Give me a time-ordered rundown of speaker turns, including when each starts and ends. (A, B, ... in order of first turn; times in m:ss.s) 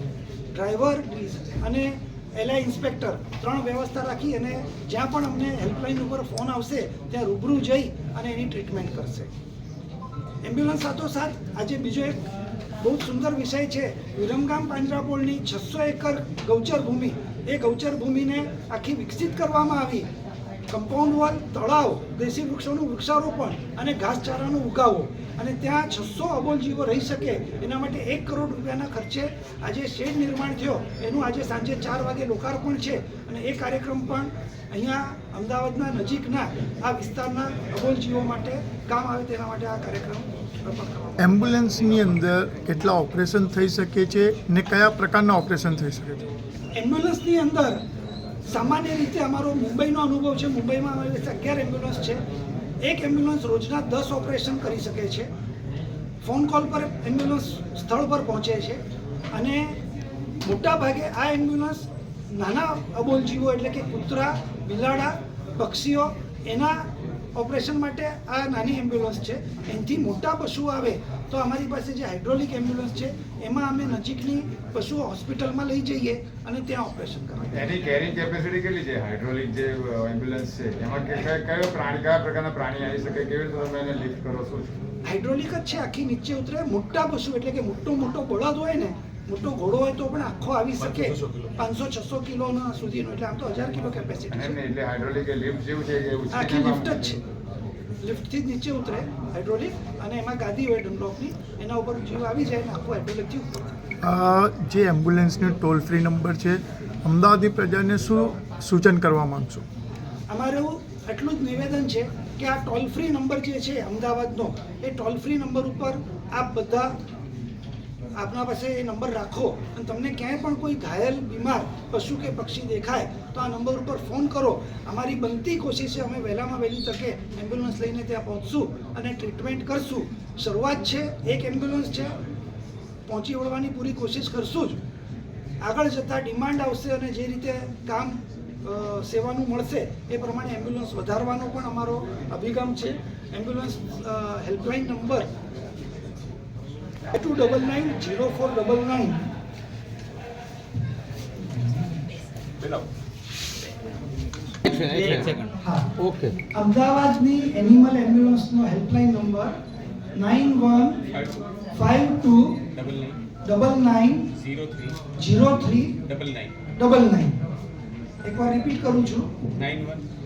0:00.5-0:09.3 A
0:10.4-0:20.1 A
0:20.7-0:41.4 A
0:41.2-0:46.3 B
0:46.7-0:47.8 A
0:48.4-0:52.2 A
0:52.8-0:55.3 A
0:56.2-0:59.8 A
1:00.4-1:17.6 A
1:17.5-1:24.7 C
1:25.0-1:34.6 A
1:34.3-1:37.0 C
1:36.3-1:37.2 A
1:38.0-1:43.8 A
1:44.0-1:49.6 B
1:50.3-1:56.9 A
1:58.2-2:12.2 A
2:13.1-2:14.8 A
2:15.6-2:25.3 A
2:27.1-2:29.3 A
2:34.8-2:35.2 D
2:35.6-2:35.9 A
2:36.5-2:39.6 A
2:40.1-2:41.0 A
2:41.7-2:42.7 A
2:42.8-2:43.2 D
2:43.4-2:44.3 A
2:44.5-2:45.0 D
2:45.2-2:45.9 A
2:46.1-2:46.5 D
2:46.7-2:47.4 A
2:48.2-2:49.3 A
2:49.6-2:50.0 D